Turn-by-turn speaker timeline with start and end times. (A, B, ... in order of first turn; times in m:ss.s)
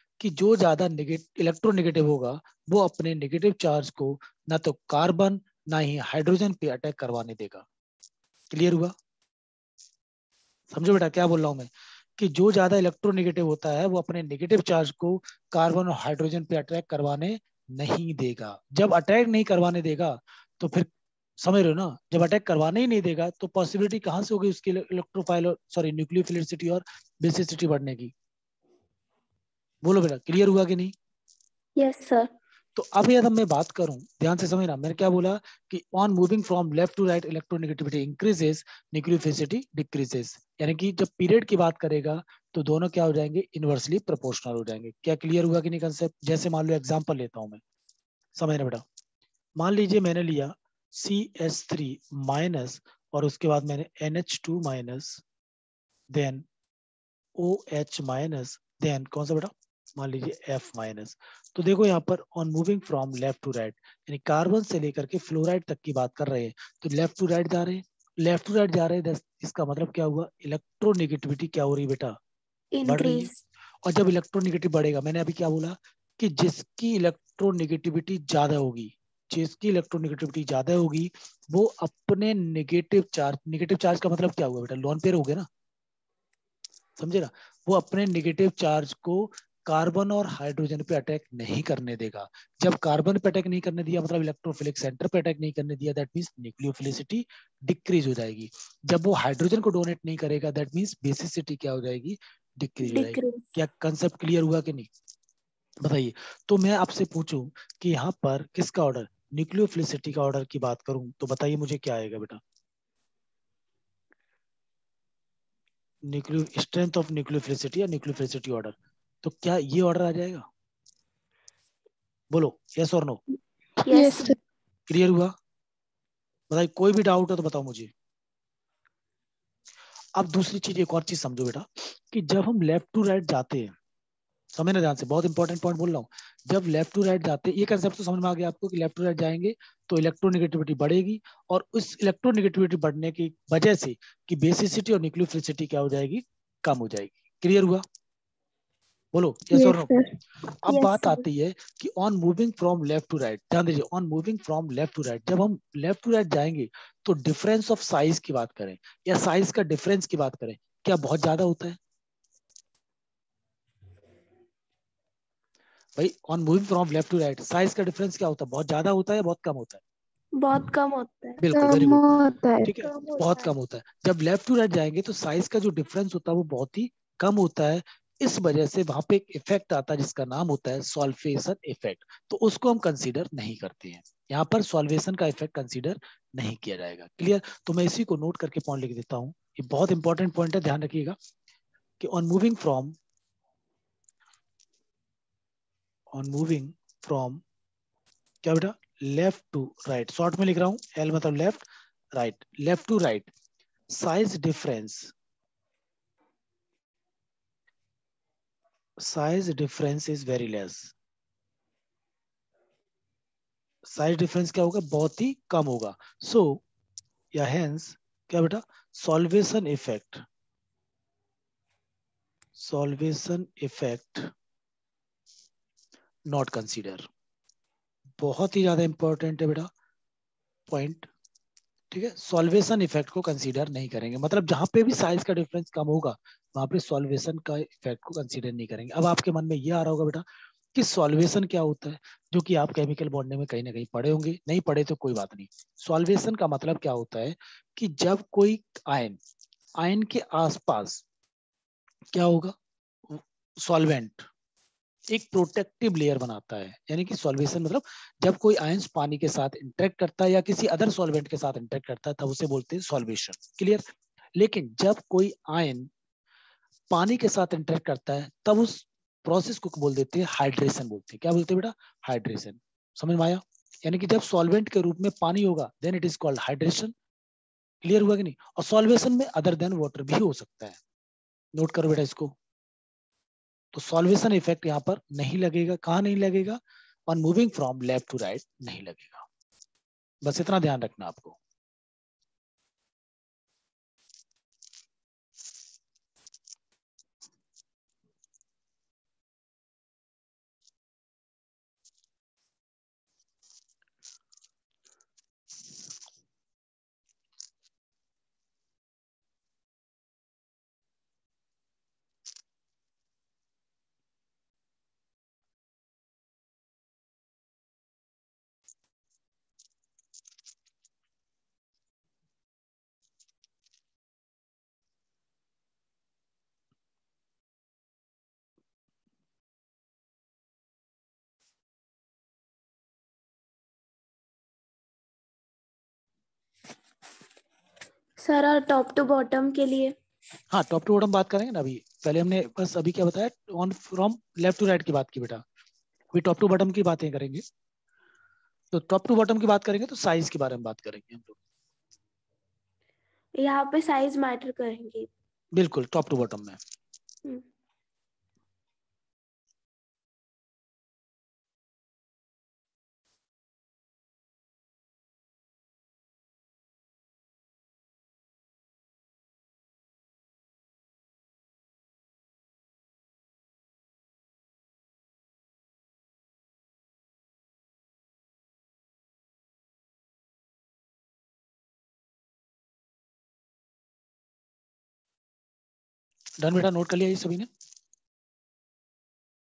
0:00.2-0:07.6 A
0:08.5-0:08.9 A
0:10.7-0:20.9 A
0:21.4-0:28.1 A
0:29.8-0:30.9 A
0:31.8-0:32.3 B
0:32.8-0:47.6 A
0:48.4-0:48.8 A
0:49.6-0:55.2 A
0:56.1-0:56.4 A
0:57.4-1:12.1 A
1:12.7-1:13.4 B
1:12.8-1:13.3 A
1:13.8-1:25.5 A
1:27.0-1:44.9 A
1:42.8-1:43.4 B
1:45.8-1:52.4 A
1:56.0-2:00.4 A
2:02.3-2:03.2 A
2:03.8-2:04.3 B
2:03.9-2:04.4 C
2:04.9-2:05.3 A
2:06.5-2:07.9 A
2:10.2-2:13.7 A
2:14.5-2:27.8 A
2:29.1-2:29.9 A
2:29.6-2:30.0 B
2:30.6-2:41.8 A
2:30.6-2:31.2 B
2:46.0-2:49.8 A
2:50.4-2:51.4 B
2:51.4-2:52.1 A
2:51.5-2:53.5 C
2:52.6-3:11.2 A
3:12.0-3:12.9 A
3:16.1-3:17.4 A
3:18.4-3:23.3 A
3:23.9-3:25.1 A
3:29.0-3:30.9 A
3:33.8-3:36.6 A
3:37.3-3:40.2 A
3:42.6-3:44.3 A
3:46.3-3:47.1 A
3:48.2-3:49.7 A
3:50.7-3:51.1 A
3:51.9-4:09.2 A
4:09.8-4:11.0 A
4:12.1-4:12.5 A
4:13.1-4:14.2 A
4:15.1-4:25.9 A
4:26.9-4:36.9 A
4:37.8-4:40.8 A
4:41.6-4:42.3 A
4:43.7-4:49.2 A
4:50.2-4:51.4 A
5:38.2-5:39.9 B
5:40.5-5:45.4 A
5:46.1-5:47.4 A
5:48.7-5:51.3 A
5:53.4-5:55.1 B
5:55.5-5:56.6 A
6:26.4-6:27.5 A